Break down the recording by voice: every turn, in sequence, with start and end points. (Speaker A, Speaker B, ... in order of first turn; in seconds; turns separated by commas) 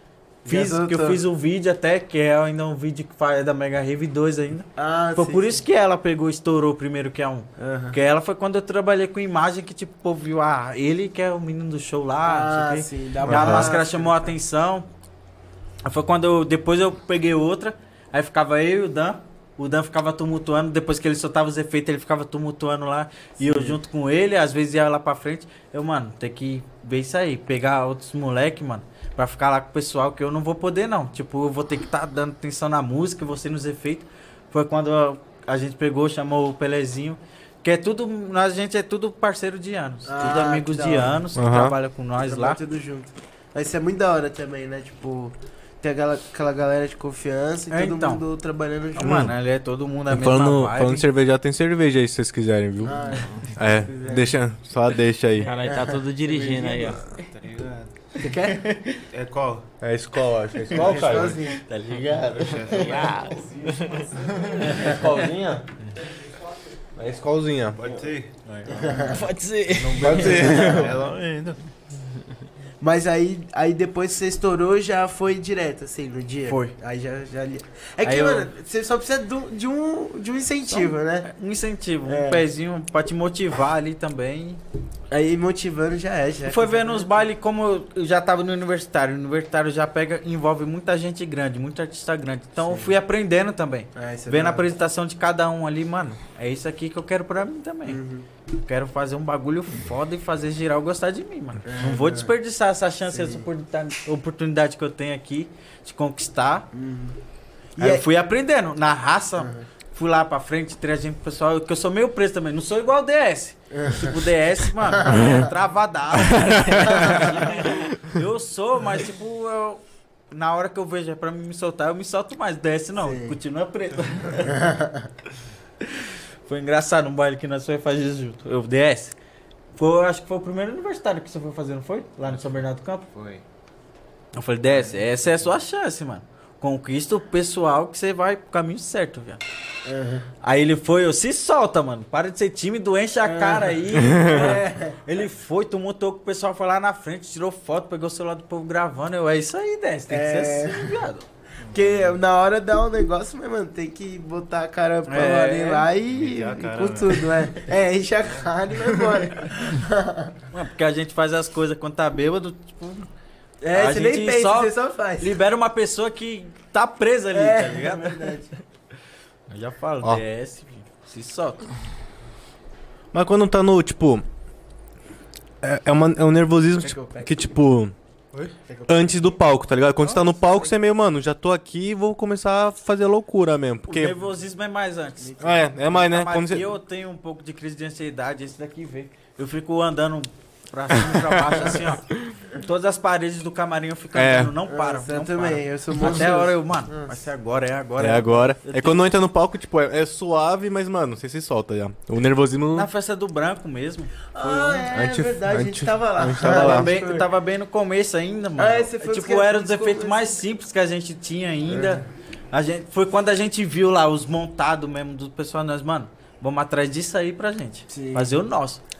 Speaker A: 0.4-1.2, Speaker B: 0.5-14.9, Speaker A: 4.8-5.5, Speaker A: 7.6-8.0, Speaker A: 12.2-14.1, Speaker C: 13.3-13.7, Speaker B: 15.8-42.6, Speaker A: 23.4-23.8, Speaker A: 40.0-41.2, Speaker C: 41.4-41.8, Speaker A: 42.2-49.3, Speaker B: 47.7-48.2, Speaker B: 48.9-51.0, Speaker C: 49.0-49.3, Speaker C: 50.1-55.5, Speaker A: 52.8-54.3, Speaker D: 53.2-53.5, Speaker D: 55.4-57.1, Speaker A: 55.6-56.0, Speaker E: 56.2-58.1, Speaker A: 58.2-58.5, Speaker B: 58.2-59.0, Speaker E: 59.1-59.7, Speaker C: 59.8-61.5, Speaker E: 60.7-61.4, Speaker B: 60.7-62.8, Speaker A: 60.9-61.6, Speaker E: 62.0-65.6, Speaker D: 62.7-64.1, Speaker B: 64.7-64.9, Speaker C: 64.8-65.3, Speaker C: 67.0-67.9, Speaker E: 67.8-69.0, Speaker B: 68.4-68.8, Speaker A: 68.8-69.2, Speaker D: 69.1-70.7, Speaker B: 69.7-70.9, Speaker C: 70.0-70.8, Speaker E: 70.0-71.6, Speaker A: 70.5-70.9, Speaker A: 72.8-81.3, Speaker B: 76.5-76.7, Speaker B: 78.0-78.5, Speaker B: 80.7-84.6, Speaker A: 82.0-82.4, Speaker A: 85.1-87.2, Speaker B: 86.4-106.7, Speaker A: 92.6-92.9, Speaker A: 93.9-94.6, Speaker A: 97.9-98.3, Speaker A: 101.7-102.3, Speaker A: 103.1-103.5, Speaker A: 106.7-107.2, Speaker A: 107.8-108.0, Speaker B: 107.8-124.5, Speaker A: 113.8-114.2, Speaker A: 115.0-115.4, Speaker D: 116.7-117.8, Speaker A: 116.9-117.4, Speaker A: 123.0-123.4, Speaker A: 124.5-125.1, Speaker B: 126.4-129.2, Speaker B: 129.8-133.1, Speaker E: 133.1-133.4, Speaker B: 134.3-139.4, Speaker A: 139.8-140.3, Speaker B: 140.4-151.2, Speaker A: 143.2-145.0, Speaker A: 150.1-151.0, Speaker D: 151.7-152.1, Speaker A: 151.7-160.3, Speaker B: 155.1-155.9, Speaker E: 156.1-157.5, Speaker B: 160.5-163.1, Speaker A: 163.6-165.4, Speaker B: 163.7-168.2, Speaker A: 167.3-168.5, Speaker B: 169.5-171.7, Speaker C: 173.1-174.2, Speaker C: 175.6-177.9, Speaker A: 176.8-177.6, Speaker A: 178.6-179.4, Speaker C: 178.9-184.2, Speaker B: 183.9-199.0, Speaker A: 185.2-185.6, Speaker C: 185.4-186.7, Speaker C: 194.1-194.5, Speaker A: 194.7-197.2, Speaker C: 198.0-202.9, Speaker B: 202.7-204.9, Speaker A: 204.3-207.3, Speaker C: 204.9-206.9, Speaker B: 206.4-218.8, Speaker A: 208.6-210.3, Speaker A: 211.7-212.0, Speaker A: 217.9-218.3